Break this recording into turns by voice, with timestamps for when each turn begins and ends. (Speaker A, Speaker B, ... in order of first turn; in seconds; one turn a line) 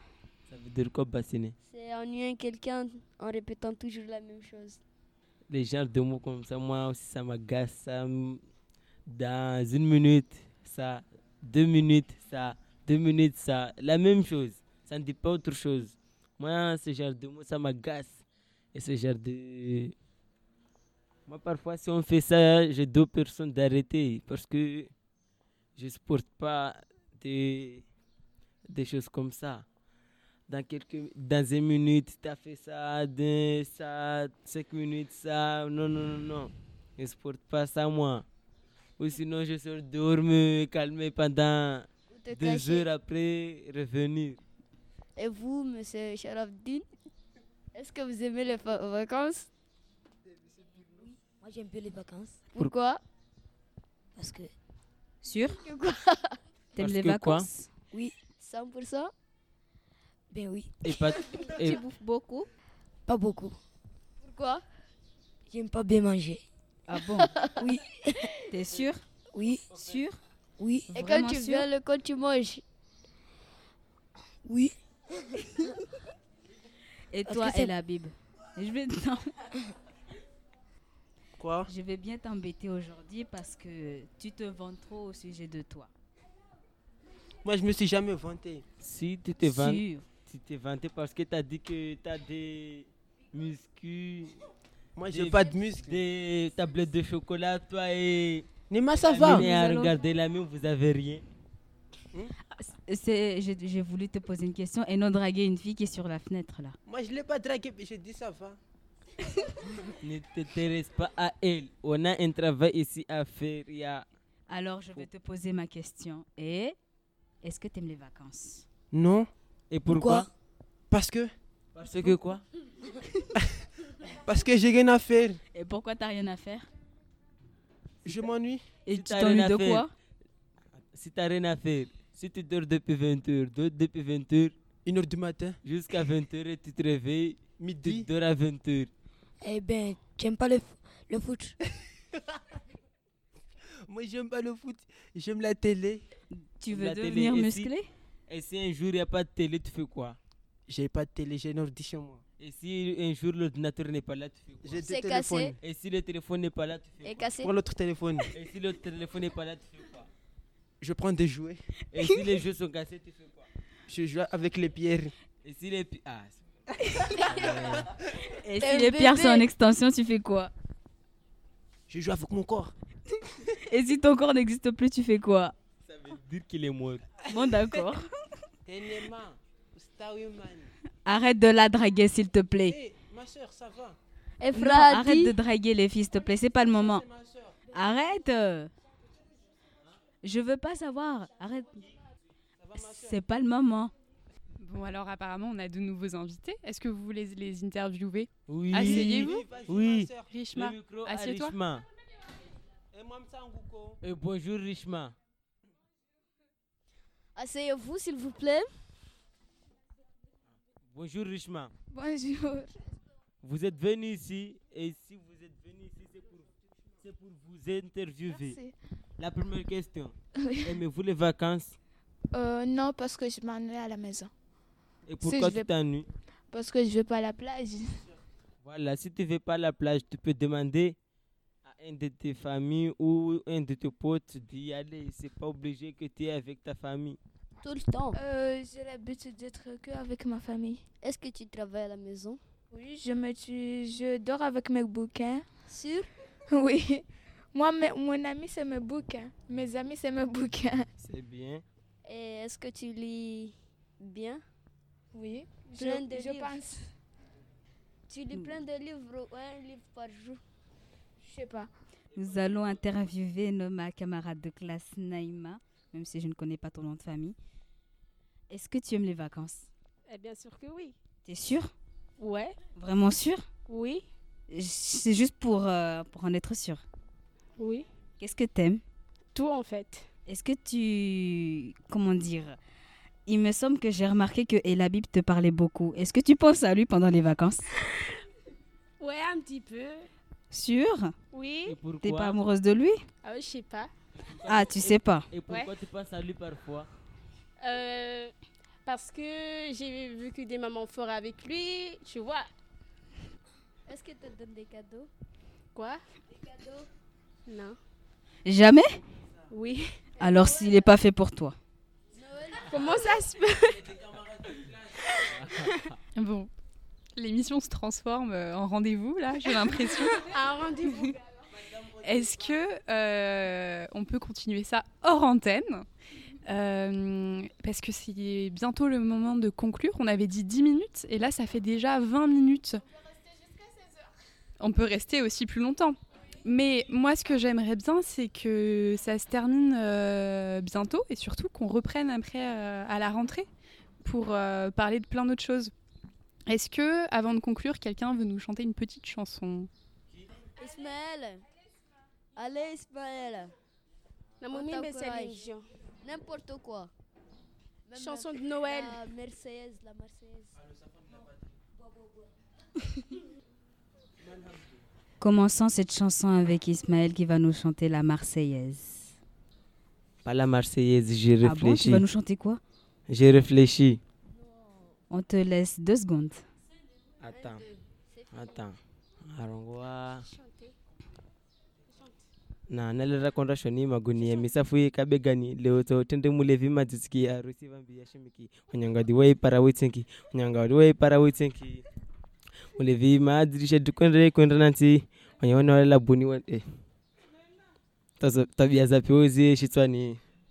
Speaker A: 0.5-1.6
Speaker B: 1.6-4.8
Speaker A: 5.5-8.4
Speaker A: 9.1-19.9
Speaker A: 21.3-24.9
Speaker A: 25.8-27.9
Speaker A: 28.7-29.7
Speaker A: 30.5-38.3
Speaker A: 39.0-44.4
Speaker B: 42.1-42.9
Speaker B: 45.2-46.9
Speaker B: 47.7-49.5
Speaker C: 51.4-52.5
Speaker B: 52.5-53.0
Speaker C: 54.2-54.5
Speaker D: 55.2-55.6
Speaker B: 55.5-56.4
Speaker D: 56.8-57.7
Speaker A: 56.8-57.5
Speaker B: 58.4-59.1
Speaker C: 60.3-60.8
Speaker A: 60.8-61.8
Speaker D: 61.5-62.5
Speaker C: 63.1-63.6
Speaker B: 64.2-64.6
Speaker C: 65.5-66.4
Speaker D: 66.9-67.3
Speaker B: 67.2-67.7
Speaker C: 67.6-68.3
Speaker D: 68.5-69.0
Speaker C: 69.3-69.7
Speaker D: 69.7-70.2
Speaker C: 70.6-70.9
Speaker D: 70.9-71.7
Speaker B: 70.9-72.6
Speaker C: 74.5-75.8
Speaker D: 77.1-79.3
Speaker C: 77.3-77.7
Speaker E: 81.4-81.7
Speaker D: 81.7-85.9
Speaker E: 87.4-88.7
Speaker A: 88.8-94.4
Speaker D: 89.4-90.0
Speaker E: 95.0-96.0
Speaker A: 95.1-101.2
Speaker E: 98.7-99.5
Speaker D: 99.2-100.0
Speaker D: 102.6-106.8
Speaker E: 106.9-108.6
Speaker A: 110.0-114.1
Speaker D: 114.5-116.8
Speaker D: 117.4-118.7
Speaker E: 118.9-119.3
Speaker A: 119.7-120.3
Speaker C: 119.9-120.3
Speaker E: 120.9-121.3
Speaker A: 121.8-122.4
Speaker E: 124.2-125.4
Speaker D: 125.5-126.7
Speaker E: 128.0-128.7
Speaker D: 128.9-129.9
Speaker A: 128.9-129.8
Speaker A: 130.9-134.6
Speaker E: 134.8-135.6
Speaker A: 135.6-138.9
Speaker E: 137.6-138.1
Speaker C: 139.4-141.6
Speaker E: 141.8-142.4
Speaker E: 143.8-146.0
Speaker D: 146.3-147.9
Speaker A: 146.7-147.7
Speaker A: 148.3-150.2
Speaker E: 150.7-152.2
Speaker A: 152.4-154.8
Speaker E: 154.6-155.6
Speaker B: 154.8-155.6
Speaker A: 155.6-157.2
Speaker B: 157.0-157.5
Speaker E: 157.4-158.3
Speaker A: 158.3-160.1
Speaker E: 160.8-161.6
Speaker A: 161.9-163.5
Speaker E: 163.9-165.1
Speaker A: 165.4-166.4
Speaker A: 167.1-167.9
Speaker D: 168.4-170.5
Speaker B: 168.6-169.5
Speaker E: 171.9-172.8
Speaker D: 173.6-175.6
Speaker A: 175.9-177.1
Speaker D: 177.3-178.1
Speaker E: 178.7-180.7
Speaker D: 181.1-182.8
Speaker E: 182.7-184.0
Speaker B: 184.4-185.3
Speaker D: 184.5-187.1
Speaker E: 186.6-187.6
Speaker D: 187.7-188.7
Speaker D: 190.2-191.9
Speaker E: 192.6-193.2
Speaker D: 192.8-193.9
Speaker F: 194.6-199.4
Speaker A: 198.5-201.9
Speaker E: 198.7-200.3
Speaker F: 200.3-201.6
Speaker E: 202.9-204.0
Speaker A: 204.0-205.2
Speaker B: 207.4-208.7
Speaker A: 210.9-211.7
Speaker G: 211.9-212.8
Speaker A: 213.4-216.5
Speaker A: 217.0-218.6
Speaker G: 218.3-218.8
Speaker A: 219.2-221.8
Speaker G: 220.4-220.8
Speaker G: 222.3-224.3
Speaker A: 225.1-226.1
Speaker G: 225.2-225.7
Speaker G: 226.5-228.1
Speaker A: 228.6-231.0
Speaker A: 231.6-237.2
Speaker B: 237.6-238.2
Speaker G: 238.1-240.8
Speaker B: 241.0-242.4
Speaker G: 242.7-245.5
Speaker B: 245.7-246.1
Speaker G: 246.5-250.9
Speaker A: 251.0-251.6
Speaker B: 252.1-254.4
Speaker G: 255.1-256.9
Speaker B: 255.8-256.7
Speaker B: 258.1-260.4
Speaker G: 261.2-261.7
Speaker D: 262.1-267.4
Speaker D: 268.5-269.7
Speaker H: 270.1-271.0
Speaker D: 271.2-271.7
Speaker H: 272.2-272.6
Speaker D: 272.8-273.5
Speaker H: 273.7-274.1
Speaker D: 274.5-276.8
Speaker H: 277.6-277.9
Speaker D: 278.2-278.8
Speaker H: 279.3-280.1
Speaker D: 280.3-282.6
Speaker D: 283.3-287.8
Speaker H: 289.0-290.1
Speaker D: 290.5-291.1
Speaker H: 291.3-291.8
Speaker A: 291.7-292.4
Speaker D: 292.0-293.0
Speaker H: 293.2-293.9
Speaker A: 294.2-296.9
Speaker D: 294.5-295.3
Speaker H: 297.6-298.3
Speaker H: 298.9-302.5
Speaker B: 303.9-305.1
Speaker H: 305.8-306.0
Speaker B: 306.3-306.9
Speaker H: 307.5-307.8
Speaker D: 308.5-309.0
Speaker H: 309.5-309.9
Speaker B: 310.2-310.8
Speaker D: 310.2-311.6
Speaker B: 312.1-313.2
Speaker H: 312.7-313.9
Speaker E: 314.1-314.6
Speaker A: 315.3-316.0
Speaker F: 316.1-316.5
Speaker F: 317.2-320.3
Speaker H: 320.2-321.2
Speaker F: 322.0-325.9
Speaker F: 326.4-332.8
Speaker G: 332.9-334.1
Speaker F: 334.6-343.5
Speaker F: 344.0-345.7
Speaker F: 346.5-349.7
Speaker B: 350.6-351.5
Speaker B: 352.4-353.5
Speaker H: 354.4-355.7
Speaker B: 354.5-355.4
Speaker B: 356.0-356.9
Speaker B: 357.9-360.5
Speaker H: 358.0-359.0
Speaker E: 360.6-361.5
Speaker D: 365.2-369.1
Speaker A: 370.2-372.1
Speaker D: 371.4-372.6
Speaker A: 373.1-374.0
Speaker D: 375.1-376.4
Speaker A: 377.2-377.6
Speaker B: 377.3-378.6
Speaker A: 378.3-380.3
Speaker H: 380.2-380.7
Speaker H: 381.9-382.2
Speaker A: 382.7-391.8
Speaker A: 392.8-396.6
Speaker A: 398.2-400.2